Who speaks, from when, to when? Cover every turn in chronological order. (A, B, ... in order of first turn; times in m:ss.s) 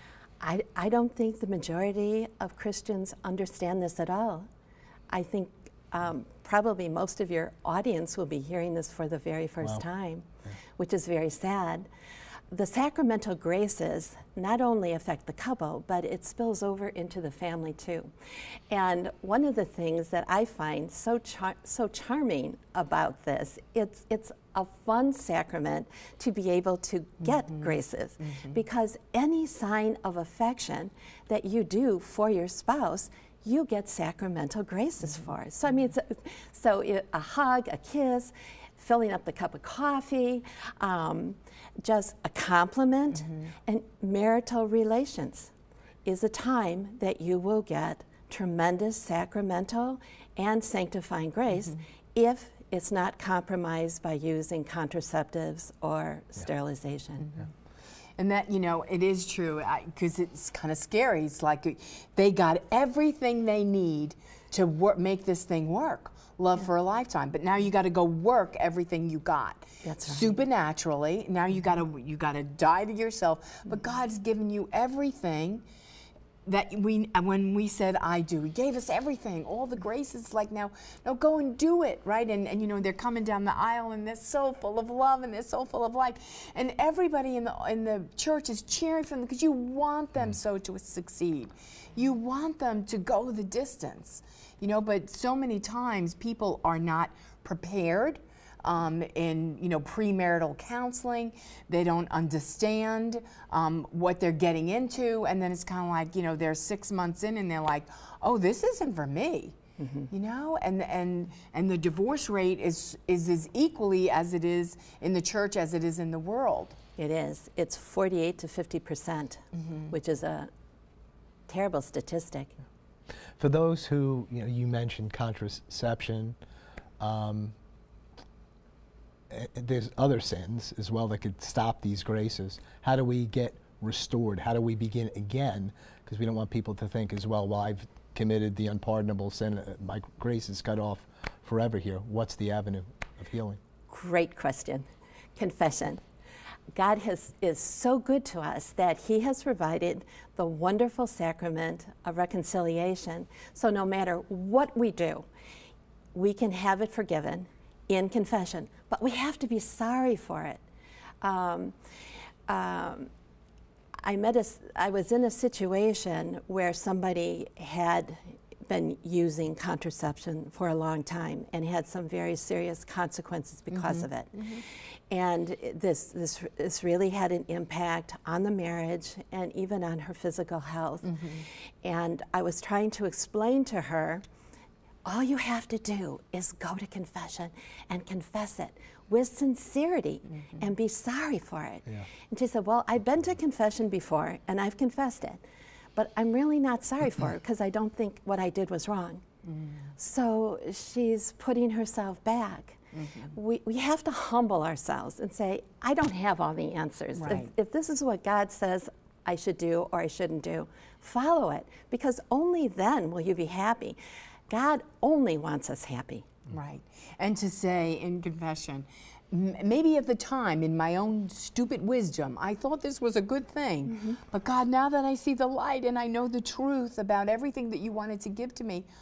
0:00.4-0:04.5 A
0:05.1-0:11.9 A
0:12.5-0:18.1 A
0:18.7-0:45.5 A
0:46.0-0:57.3 A
0:58.2-1:15.6 B
1:09.8-1:10.3 A
1:16.5-1:49.6 B
1:49.8-1:50.1 A
1:50.1-1:56.8 B
1:57.0-2:00.5 A
2:01.5-2:02.5 A
2:03.4-2:06.4 C
2:07.0-2:07.5 C
2:09.3-2:23.6 C
2:23.9-2:24.9 A
2:25.4-2:26.0 A
2:26.8-2:35.3 A
2:36.1-2:40.6 A
2:41.2-2:41.8 A
2:42.5-2:43.1 A
2:44.0-2:54.5 A
2:53.7-2:54.6 B
2:55.1-3:01.2 A
3:01.0-3:01.4 B
3:01.8-3:04.2 A
3:05.0-3:15.4 A
3:16.0-3:19.2 A
3:19.5-3:19.9 B
3:20.0-3:22.8 A
3:23.0-3:23.3 B
3:23.3-3:34.0 A
3:27.2-3:27.5 B
3:34.5-3:36.3 A
3:36.5-3:48.9 B